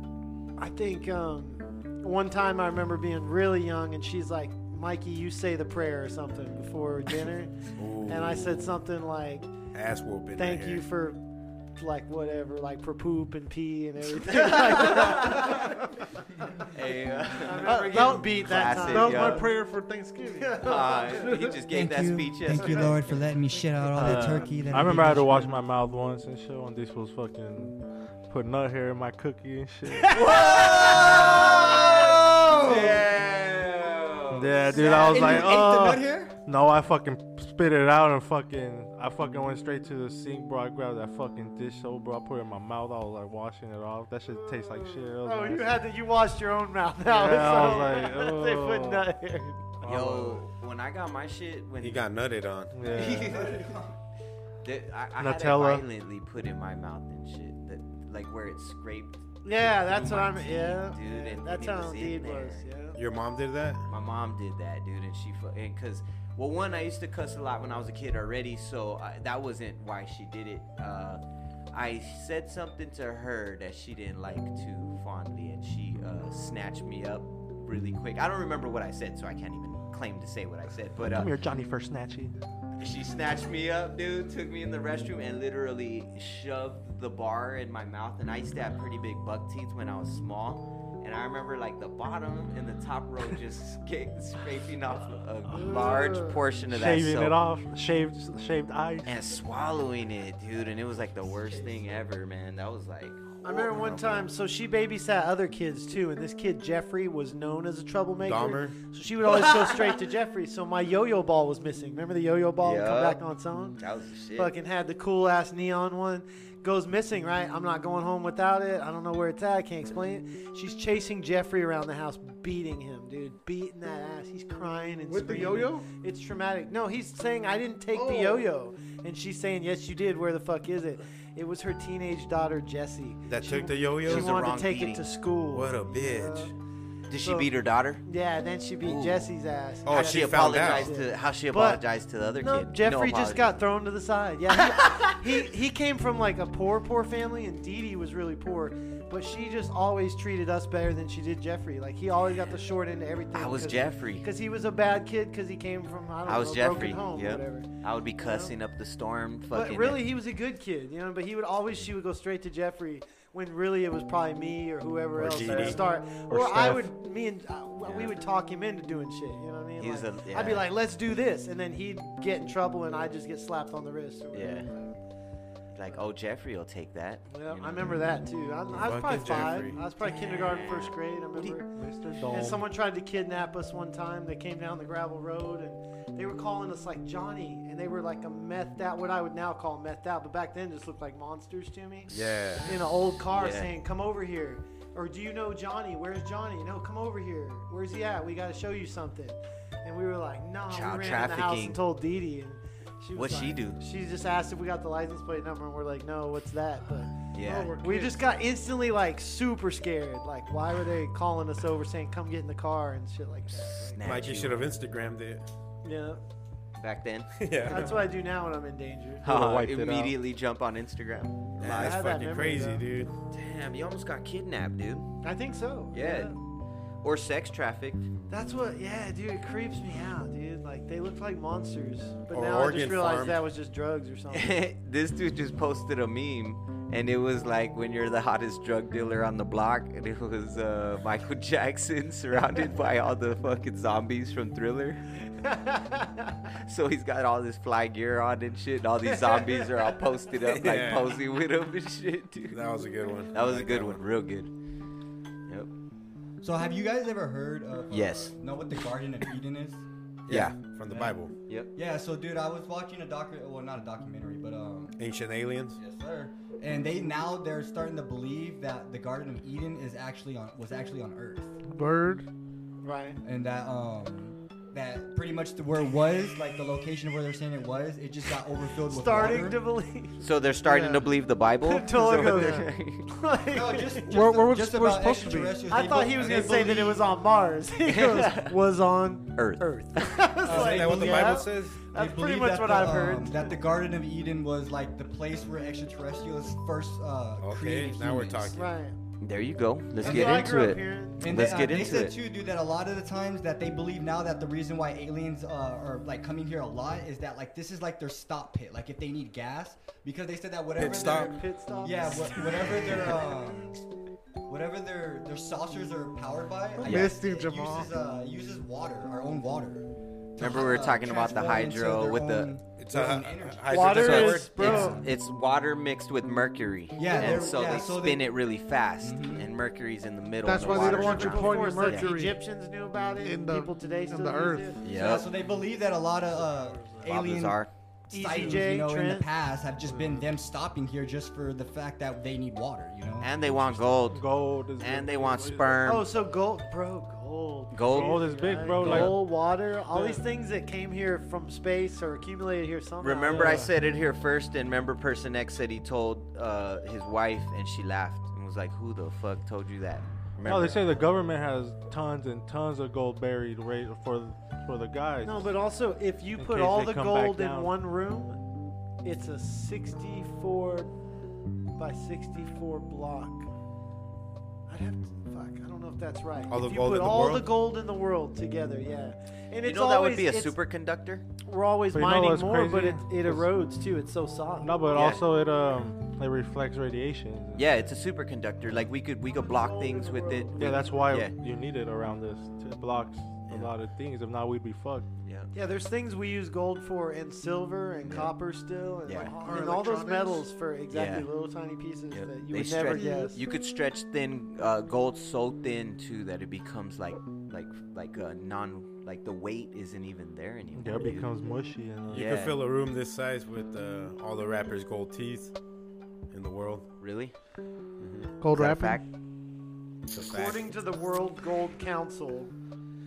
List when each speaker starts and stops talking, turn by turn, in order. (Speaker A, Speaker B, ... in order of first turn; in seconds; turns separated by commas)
Speaker A: 0.6-9.5, Speaker B: 7.8-8.7, Speaker B: 9.7-10.9, Speaker A: 10.4-11.2, Speaker A: 11.8-15.7, Speaker C: 14.2-15.8, Speaker C: 16.7-19.5, Speaker A: 17.4-19.5, Speaker D: 17.6-21.6, Speaker A: 20.4-21.2, Speaker C: 20.6-23.0, Speaker E: 21.7-25.5, Speaker F: 24.0-30.2, Speaker C: 24.0-24.4, Speaker C: 30.1-35.5, Speaker E: 30.2-33.2, Speaker F: 34.3-45.9, Speaker E: 34.4-36.4, Speaker A: 44.5-49.6, Speaker F: 47.1-49.1, Speaker F: 49.8-50.4, Speaker C: 49.8-52.1, Speaker B: 51.8-52.8, Speaker F: 52.7-53.4, Speaker E: 52.9-54.0, Speaker C: 52.9-53.6, Speaker C: 54.6-62.6, Speaker F: 55.2-55.9, Speaker A: 59.4-63.0, Speaker B: 63.0-63.9, Speaker C: 63.9-71.2, Speaker C: 71.7-81.3, Speaker F: 81.0-82.3, Speaker C: 82.8-97.3, Speaker A: 95.5-96.4, Speaker F: 96.7-99.2, Speaker C: 99.0-104.3, Speaker E: 101.2-102.0, Speaker A: 103.4-113.8, Speaker B: 108.2-108.8, Speaker C: 109.2-110.0, Speaker C: 112.6-113.2, Speaker C: 113.8-114.5, Speaker A: 114.4-136.5, Speaker D: 125.1-125.9, Speaker D: 127.9-128.5, Speaker B: 133.3-134.3, Speaker C: 134.0-135.1, Speaker B: 135.5-136.5, Speaker C: 137.1-138.0, Speaker A: 137.2-137.5, Speaker A: 138.1-141.8, Speaker C: 138.8-139.3, Speaker B: 139.8-140.9, Speaker C: 139.9-143.6, Speaker A: 142.4-157.7, Speaker C: 144.7-145.1, Speaker C: 153.3-154.3, Speaker C: 156.3-160.1, Speaker A: 158.2-158.5, Speaker A: 159.5-174.9, Speaker B: 165.2-165.8, Speaker F: 165.3-165.8, Speaker F: 166.3-166.8, Speaker C: 167.8-168.2, Speaker C: 169.8-170.7, Speaker C: 174.3-174.7, Speaker C: 175.7-178.0, Speaker A: 177.3-181.7, Speaker B: 178.8-179.8, Speaker C: 180.0-180.9, Speaker F: 181.7-182.7, Speaker A: 182.3-192.1, Speaker B: 192.1-192.7, Speaker C: 192.1-192.6, Speaker A: 192.6-207.1, Speaker C: 193.3-193.7, Speaker C: 200.7-201.8, Speaker C: 203.2-203.8, Speaker C: 207.3-207.8, Speaker D: 207.4-208.2, Speaker A: 207.8-214.0, Speaker C: 213.5-214.6, Speaker B: 214.0-215.4, Speaker A: 215.8-216.2, Speaker C: 216.8-217.5, Speaker B: 217.4-218.1, Speaker A: 217.7-219.3, Speaker F: 219.2-220.2, Speaker C: 219.2-222.0, Speaker B: 221.6-223.1, Speaker A: 221.6-222.8, Speaker C: 223.3-225.2, Speaker A: 225.2-226.4, Speaker C: 225.9-226.4, Speaker C: 227.0-228.1, Speaker A: 228.3-234.6, Speaker B: 232.3-233.4, Speaker C: 234.3-245.2, Speaker A: 245.4-246.3, Speaker C: 246.5-252.6, Speaker A: 249.1-249.7, Speaker B: 250.4-251.2, Speaker B: 252.5-254.0, Speaker C: 253.3-254.5, Speaker E: 256.4-259.8, Speaker C: 257.9-258.3, Speaker B: 260.3-261.3, Speaker C: 260.3-260.6, Speaker E: 260.9-261.1, Speaker C: 261.5-261.7, Speaker E: 261.7-265.0, Speaker B: 265.0-265.8, Speaker E: 265.8-271.6, Speaker D: 271.7-272.3, Speaker A: 272.8-273.2, Speaker E: 273.2-279.6, Speaker A: 278.9-280.2, Speaker C: 280.2-283.1, Speaker D: 280.7-281.1, Speaker A: 281.6-284.1, Speaker D: 282.0-282.7, Speaker E: 283.5-287.1, Speaker D: 284.1-285.6, Speaker A: 285.7-293.5, Speaker C: 287.9-288.5, Speaker C: 289.4-290.3, Speaker E: 290.4-298.6, Speaker B: 290.5-291.8, Speaker B: 297.4-298.7, Speaker A: 298.5-298.9, Speaker C: 299.2-302.2, Speaker E: 300.0-300.6, Speaker A: 300.0-301.3, Speaker E: 301.2-313.8, Speaker B: 310.8-311.4, Speaker A: 311.2-313.2, Speaker E: 314.5-325.1, Speaker D: 316.8-317.9, Speaker C: 316.9-317.1, Speaker C: 320.4-322.5, Speaker B: 322.8-324.8, Speaker A: 323.6-325.0, Speaker C: 323.8-332.1, Speaker E: 327.0-328.3, Speaker A: 327.1-327.6, Speaker E: 329.0-329.5, Speaker D: 330.4-332.4, Speaker A: 330.6-335.1, Speaker D: 333.2-335.0, Speaker C: 334.8-335.3, Speaker E: 334.9-343.9, Speaker D: 336.3-337.1, Speaker C: 337.0-337.7, Speaker A: 338.1-339.3, Speaker C: 343.2-346.1, Speaker F: 344.1-345.8, Speaker A: 345.8-353.6, Speaker C: 347.7-349.1, Speaker F: 347.9-349.3, Speaker F: 349.9-350.2, Speaker C: 353.0-361.0, Speaker F: 353.3-353.7, Speaker F: 360.4-365.6, Speaker A: 365.2-368.4, Speaker F: 366.4-367.8, Speaker A: 369.0-370.9, Speaker A: 371.8-373.5, Speaker A: 374.7-380.6, Speaker B: 376.5-377.5, Speaker C: 379.6-381.3, Speaker A: 381.4-384.8, Speaker F: 381.9-383.6, Speaker F: 384.6-387.7, Speaker C: 384.9-385.2, Speaker C: 387.6-391.4, Speaker A: 389.3-391.1, Speaker F: 390.6-395.1, Speaker C: 395.2-395.5, Speaker A: 395.5-403.4, Speaker C: 398.0-398.3, Speaker C: 399.1-399.3, Speaker D: 399.4-400.5, Speaker C: 400.9-401.3, Speaker C: 402.1-411.3, Speaker D: 402.9-403.4, Speaker F: 410.8-412.3, Speaker B: 412.1-415.5, Speaker C: 412.1-412.6, Speaker B: 416.3-416.9, Speaker C: 417.0-417.3, Speaker B: 418.0-418.3, Speaker D: 418.4-419.0, Speaker C: 418.5-419.0, Speaker B: 420.1-420.7, Speaker A: 420.2-422.5